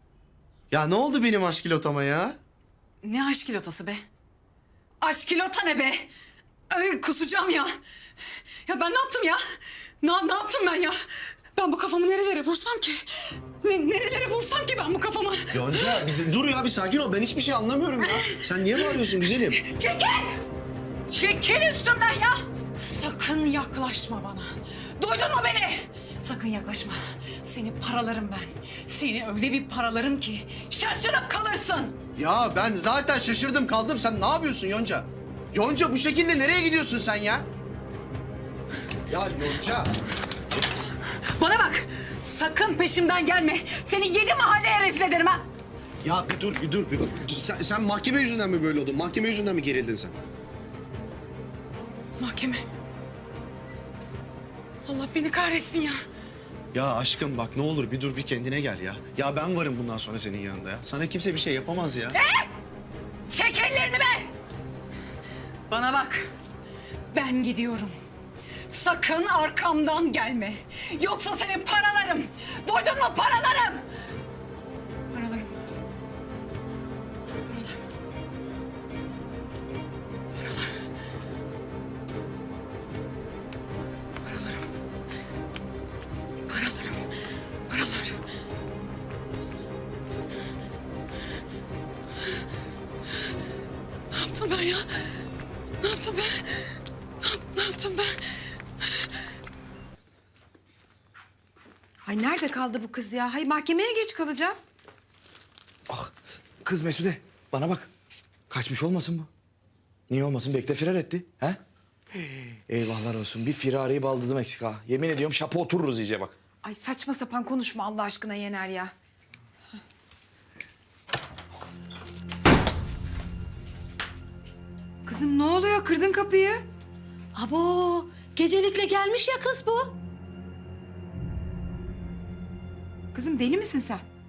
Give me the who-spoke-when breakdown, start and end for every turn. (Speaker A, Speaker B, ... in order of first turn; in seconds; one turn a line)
Speaker A: 0.7-2.4
Speaker B: 3.0-4.0
Speaker B: 5.0-6.1
Speaker B: 6.7-7.8
Speaker B: 8.7-9.4
Speaker B: 10.0-11.0
Speaker B: 11.6-16.0
Speaker A: 15.5-19.6
Speaker B: 18.0-20.4
Speaker B: 21.1-32.0
Speaker A: 32.2-37.5
Speaker A: 39.1-39.9
Speaker B: 41.4-45.5
Speaker A: 46.0-50.2
Speaker B: 52.2-52.6
Speaker B: 54.9-56.0
Speaker A: 56.7-62.2
Speaker B: 62.1-62.5
Speaker B: 63.3-64.3
Speaker B: 65.7-66.3
Speaker B: 67.1-68.0
Speaker B: 68.7-73.8
Speaker B: 75.1-75.5
Speaker B: 77.5-77.8
Speaker B: 80.4-80.7
Speaker B: 84.2-84.6
Speaker B: 86.5-87.0
Speaker B: 87.7-88.2
Speaker B: 94.1-95.0
Speaker B: 95.8-96.7
Speaker B: 97.2-98.2
Speaker C: 102.1-104.7
Speaker D: 105.9-107.9
Speaker D: 108.5-109.3
Speaker D: 110.1-111.6
Speaker D: 112.7-116.4
Speaker C: 116.6-118.9
Speaker C: 125.1-126.6
Speaker E: 127.3-129.9
Speaker C: 133.1-134.0